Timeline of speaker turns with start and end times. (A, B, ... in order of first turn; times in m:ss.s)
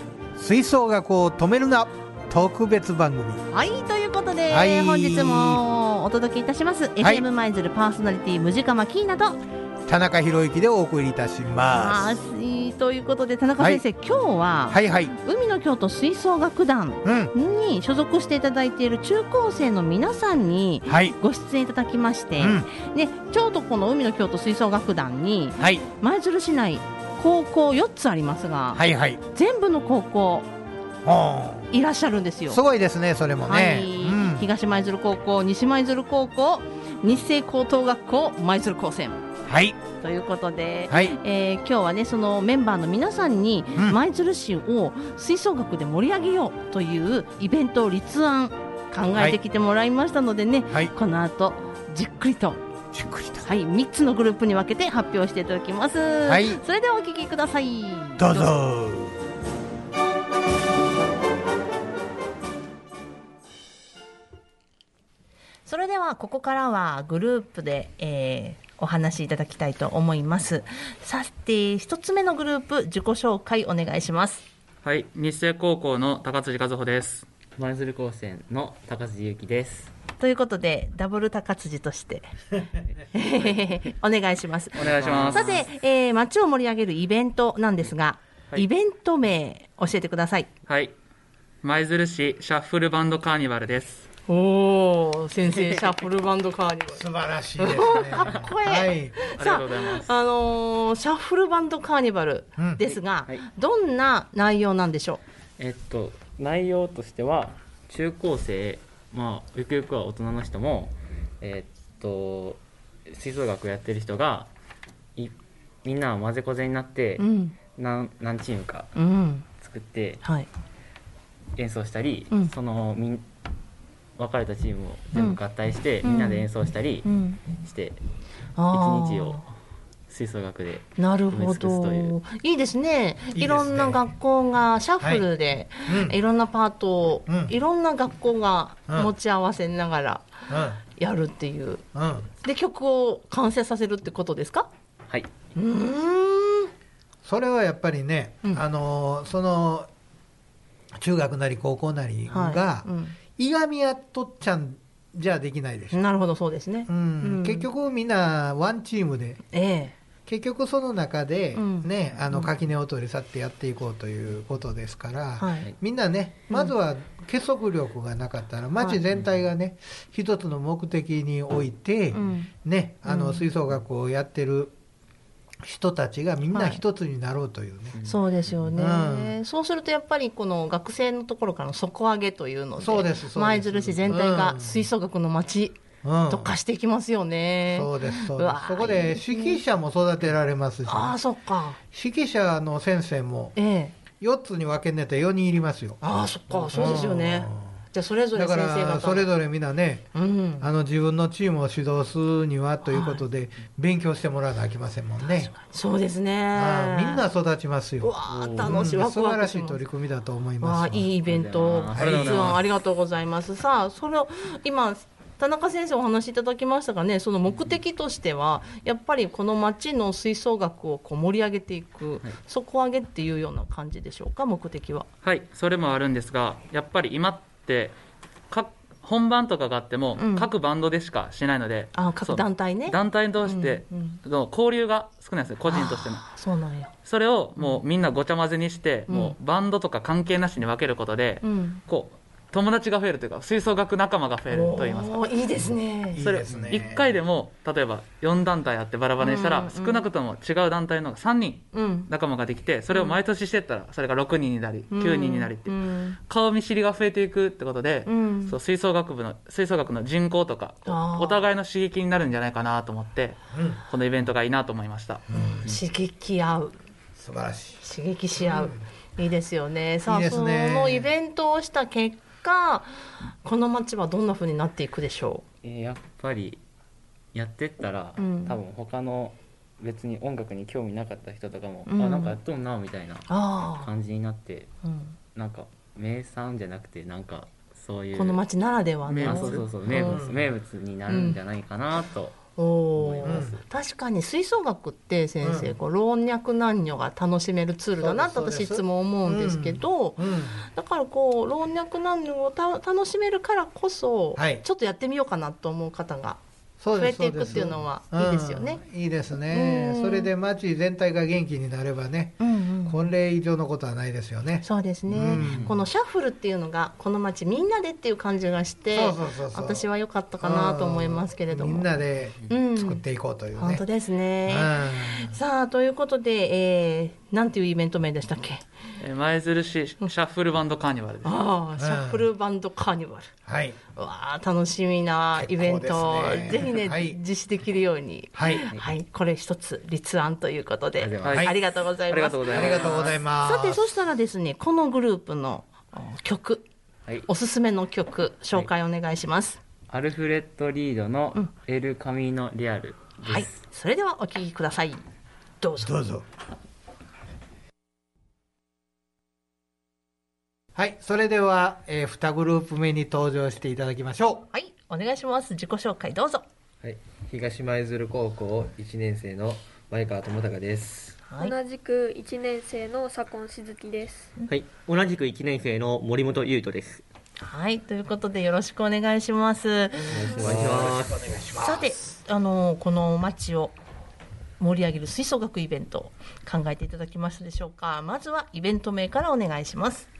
0:00.4-0:03.5 A
0:03.5-0:09.4 B
0:04.5-0:05.6 A
0:07.0-0:07.2 A
0:09.8-0:12.1 A
0:11.7-0:30.5 B
0:14.7-0:15.1 A
0:17.0-0:17.3 A
0:20.9-0:21.1 A
0:22.4-0:22.7 A
0:25.6-0:25.8 A
0:28.7-0:29.2 A
0:31.0-0:31.7 A
0:31.7-0:32.6 B
0:32.5-0:34.4 A
0:33.4-0:39.2 B
0:39.5-0:39.8 A
0:40.0-0:52.6 B
0:40.9-0:41.2 A
0:52.9-0:53.5 A
0:53.4-0:58.6 B
0:56.2-0:56.6 A
0:58.2-0:59.2 A
1:05.6-1:14.4 B
1:14.8-1:17.3 C
1:17.6-1:19.9 D
1:20.2-1:22.3 B
1:23.0-1:23.5 D
1:23.1-1:30.5 B
1:24.8-1:25.6 C
1:24.8-1:25.6 D
1:30.7-1:31.0 C
1:31.6-1:34.1 C
1:34.3-1:37.0 B
1:36.9-1:39.2 A
1:37.6-1:45.2 B
1:39.3-1:40.1 C
1:45.6-1:54.5 D
1:55.2-1:58.9 D
1:57.2-1:57.5 B
1:58.9-1:59.4 B
1:59.5-2:00.2 D
2:00.2-2:00.5 B
2:01.6-2:03.2 D
2:04.2-2:08.0 D
2:06.0-2:06.5 B
2:07.0-2:07.4 B
2:08.6-2:09.4 B
2:08.7-2:09.4 D
2:10.1-2:12.2 D
2:11.0-2:21.8 B
2:13.3-2:14.0 A
2:15.0-2:15.2 A
2:15.9-2:16.2 A
2:17.3-2:17.5 A
2:20.5-2:20.8 A
2:21.9-2:22.3 A
2:22.4-2:24.7 B
2:25.6-2:26.7 B
2:27.2-2:29.9 A
2:30.9-2:36.0 A
2:32.3-2:33.2 B
2:35.9-2:37.7 B
2:36.9-2:39.4 A
2:39.5-2:40.0 B
2:40.2-2:54.7 A
2:41.5-2:42.5 B
2:45.4-2:45.7 B
2:52.1-2:52.5 B
2:53.0-2:53.4 B
2:55.6-2:58.0 A
2:56.5-2:56.8 B
2:57.9-2:58.6 D
2:58.0-3:09.6 B
2:58.7-2:59.4 A
3:02.8-3:04.8 A
3:06.0-3:06.5 A
3:07.7-3:11.2 A
3:10.9-3:11.8 B
3:11.9-3:13.6 A
3:13.6-3:14.0 B
3:14.2-3:16.0 A
3:16.0-3:19.3 B
3:16.7-3:17.8 A
3:18.3-3:20.1 A
3:20.1-3:20.7 B
3:20.6-3:25.5 A
3:22.8-3:23.2 B
3:25.4-3:27.2 B
3:26.5-3:31.1 A
3:28.0-3:29.8 B
3:28.3-3:28.8 D
3:30.6-3:45.1 B
3:31.2-3:32.6 D
3:31.9-3:32.5 A
3:45.2-3:48.0 C
3:48.5-3:56.3 C
3:50.2-3:50.5 B
3:51.9-3:54.2 B
3:55.7-3:56.9 B
3:57.0-4:05.2 C
3:57.6-3:57.8 B
3:59.1-3:59.4 B
4:01.4-4:01.8 B
4:04.5-4:06.2 B
4:06.2-4:07.1 A
4:06.2-4:25.2 C
4:09.2-4:10.1 B
4:11.7-4:12.1 B
4:12.9-4:13.2 B
4:14.9-4:16.2 B
4:18.0-4:18.5 B
4:20.8-4:21.4 B
4:23.5-4:23.8 A
4:25.3-4:25.6 A
4:25.6-4:26.7 B
4:27.2-4:27.8 A
4:27.8-4:35.4 B
4:28.4-4:28.8 A
4:30.1-4:31.1 A
4:35.6-4:36.6 D
4:37.3-4:44.7 D
4:38.2-4:38.6 B
4:41.9-4:42.4 B
4:43.3-4:43.9 B
4:44.8-4:45.1 B
4:45.3-4:48.4 D
4:48.1-4:50.2 B
4:49.1-4:53.6 D
4:49.2-4:49.6 C
4:49.8-4:50.4 A
4:51.1-4:51.4 B
4:52.6-5:06.4 B
4:53.2-4:53.6 A
4:55.4-4:55.7 A
4:58.0-5:00.6 A
5:04.4-5:04.6 A
5:06.8-5:15.7 A
5:06.9-5:08.8 B
5:09.5-5:10.3 B
5:12.4-5:13.0 B
5:14.6-5:21.9 B
5:15.4-5:15.7 D
5:18.9-5:19.9 A
5:20.4-5:23.8 A
5:22.5-5:23.0 B
5:23.5-5:28.6 B
5:24.5-5:25.3 A
5:29.0-5:31.4 C
5:31.2-5:33.3 B
5:31.8-5:32.2 A
5:33.4-5:33.8 A
5:34.0-5:46.6 B
5:35.4-5:37.2 A
5:38.3-5:38.6 A
5:41.0-5:43.1 D
5:41.3-5:41.5 A
5:42.5-5:43.9 A
5:47.2-5:49.6 B
5:49.9-5:53.6 D
5:53.2-5:55.0 B
5:55.6-5:56.0 B
5:55.8-5:56.2 A
6:00.7-6:04.5 A
6:04.5-6:06.4 B
6:06.8-6:11.2 E
6:11.3-6:11.5 B
6:11.4-6:14.3 F
6:14.5-6:17.0 G
6:17.4-6:20.4 B
6:20.1-6:21.1 E
6:20.4-6:22.0 A
6:20.4-6:21.2 G
6:21.6-6:23.7 B
6:24.6-6:30.1 B